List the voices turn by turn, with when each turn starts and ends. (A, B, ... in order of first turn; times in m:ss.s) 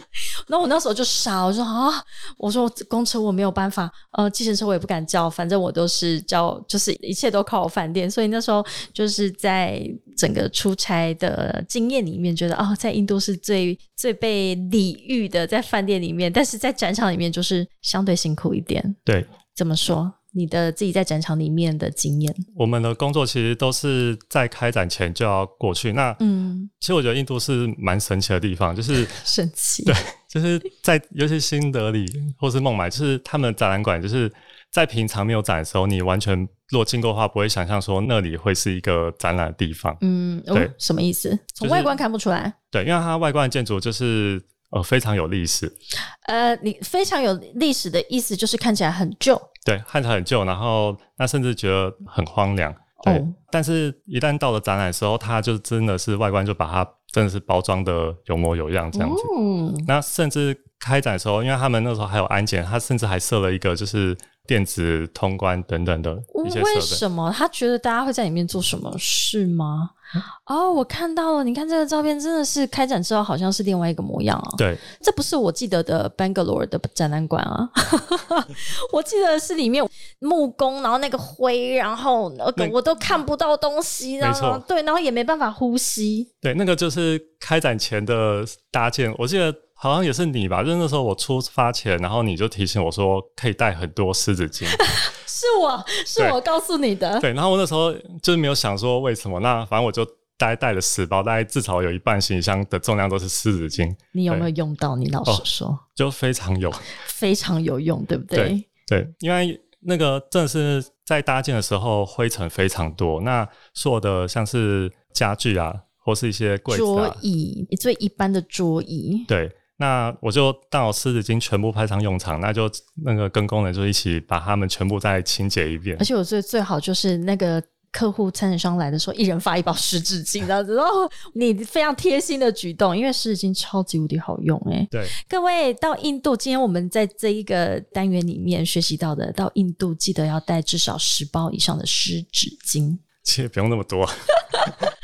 0:00.5-0:19.0 A
0:19.5-0:22.4 A
0:22.6-0:26.2 B
0:26.2-0:26.7 A
0:26.8-0:29.2 B
0:29.1-0:30.0 A
0:29.9-0:40.0 B
0:40.0-0:42.6 A
0:41.6-0:42.0 B
0:42.7-0:45.7 B
0:46.2-0:49.5 A
0:49.6-0:59.3 B
0:53.0-0:53.4 A
0:58.9-0:59.9 A
0:59.9-1:07.0 B
1:06.3-1:10.0 A
1:10.5-1:26.3 A
1:24.2-1:24.6 B
1:26.4-1:34.8 B
1:34.7-1:37.3 A
1:37.2-1:44.5 B
1:44.1-1:45.8 A
1:46.0-1:46.9 B
1:47.0-1:48.7 A
1:48.3-1:57.2 B
1:56.7-1:59.3 A
1:59.3-2:06.1 B
2:06.0-2:23.0 A
2:23.2-2:24.1 B